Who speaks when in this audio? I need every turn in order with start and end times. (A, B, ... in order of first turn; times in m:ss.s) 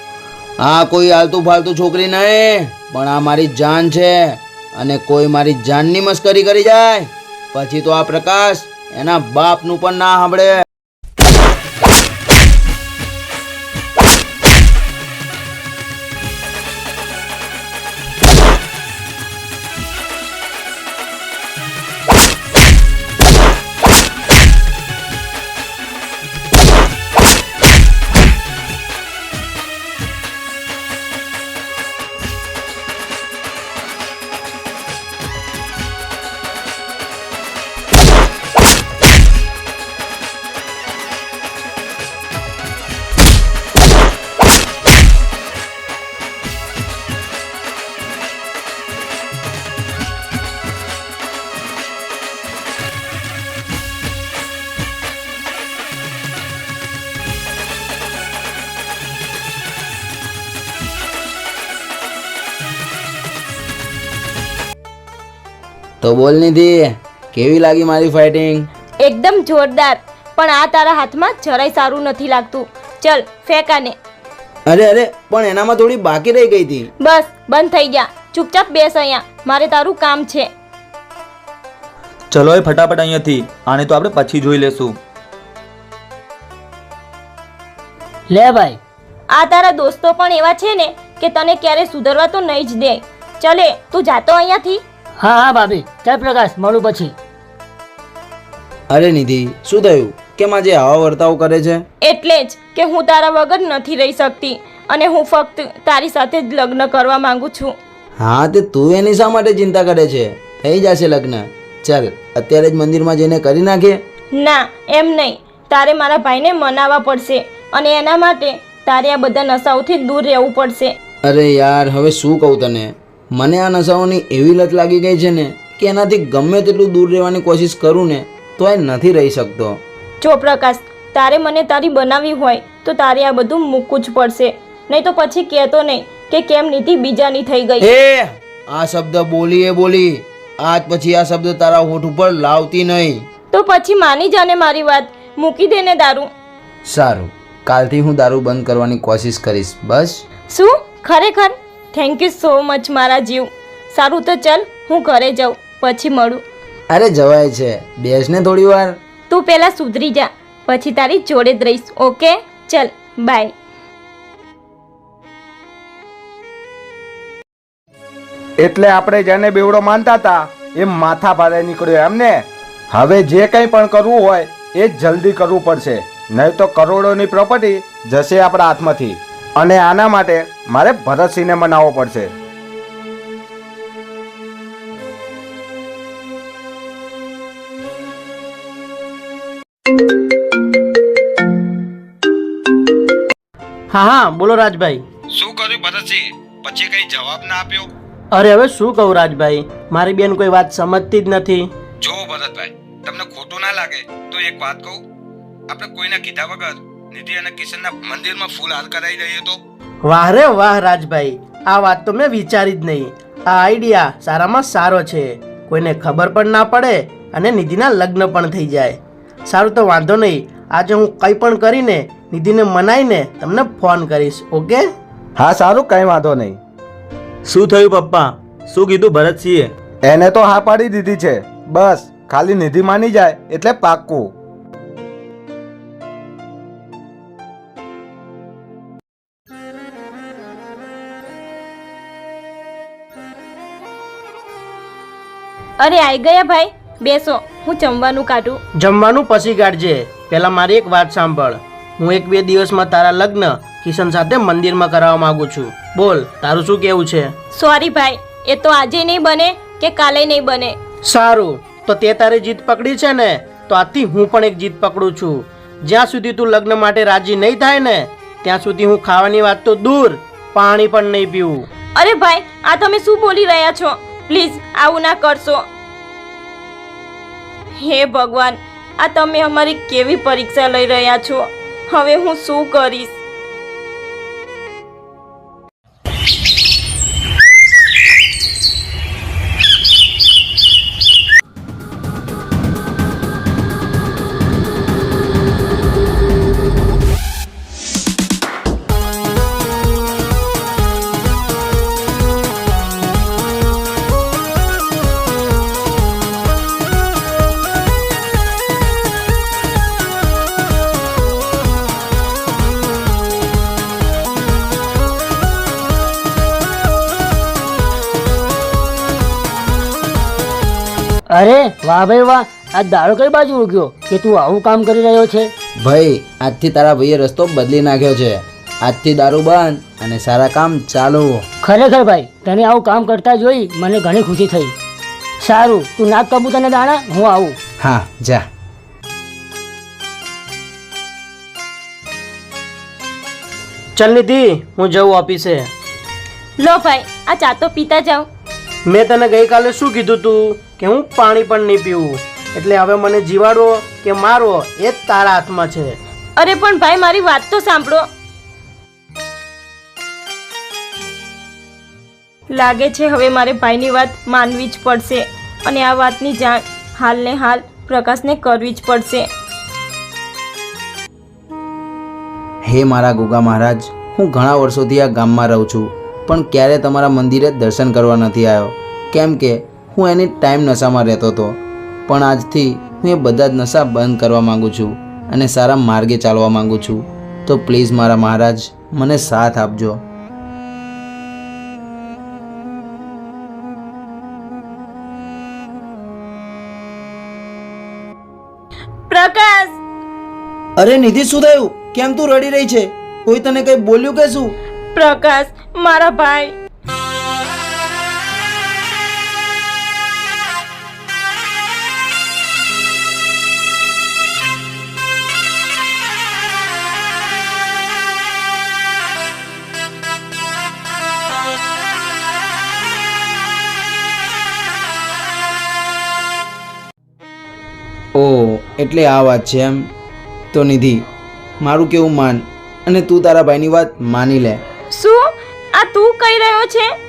0:00.6-0:10.6 A
1:06.0-1:08.7 A
1:09.0-1:14.0 B
1:14.7-1:16.9 A
1:17.0-1:20.5 B
1:22.3-1:25.0 C
1:28.3-1:28.8 D
1:29.3-1:34.8 B
1:35.2-1:37.1 D
1:38.9-1:41.8 A
1:42.0-1:47.7 B
1:48.2-1:54.0 A
1:54.3-2:00.9 B
2:01.2-2:09.8 A
2:10.2-2:17.9 B
2:17.8-2:23.2 A
2:23.5-2:26.3 B
2:26.8-2:30.2 A
2:30.5-2:36.4 B
2:36.9-2:39.0 A
2:39.3-2:43.5 B
2:48.6-3:02.3 E
3:13.9-3:15.0 F
3:15.3-3:17.9 E
3:18.3-3:21.7 F
3:22.0-3:25.0 E
3:25.7-3:29.6 E
3:30.0-3:44.9 F
3:45.4-3:46.6 E
3:47.4-3:49.7 C
3:50.0-3:54.3 E
4:05.8-4:08.6 B
4:08.8-4:17.3 F
4:17.5-4:20.8 B
4:21.0-4:31.7 F
4:32.0-4:35.6 B
4:37.8-4:43.1 B
5:21.3-5:25.5 D
5:25.8-5:31.5 A
5:31.6-5:34.7 D
5:35.4-5:37.6 D
5:37.8-5:38.5 A
5:44.0-5:45.7 F
5:46.6-5:48.3 B
5:48.9-5:56.0 F
5:56.4-5:58.0 B
6:02.5-6:09.3 B
6:12.6-6:30.0 A
6:39.1-6:39.8 B
6:40.8-6:44.5 A
6:44.9-6:46.5 B
7:08.1-7:09.9 A
7:10.5-7:11.0 A
7:11.6-7:14.6 A
7:14.9-7:16.9 B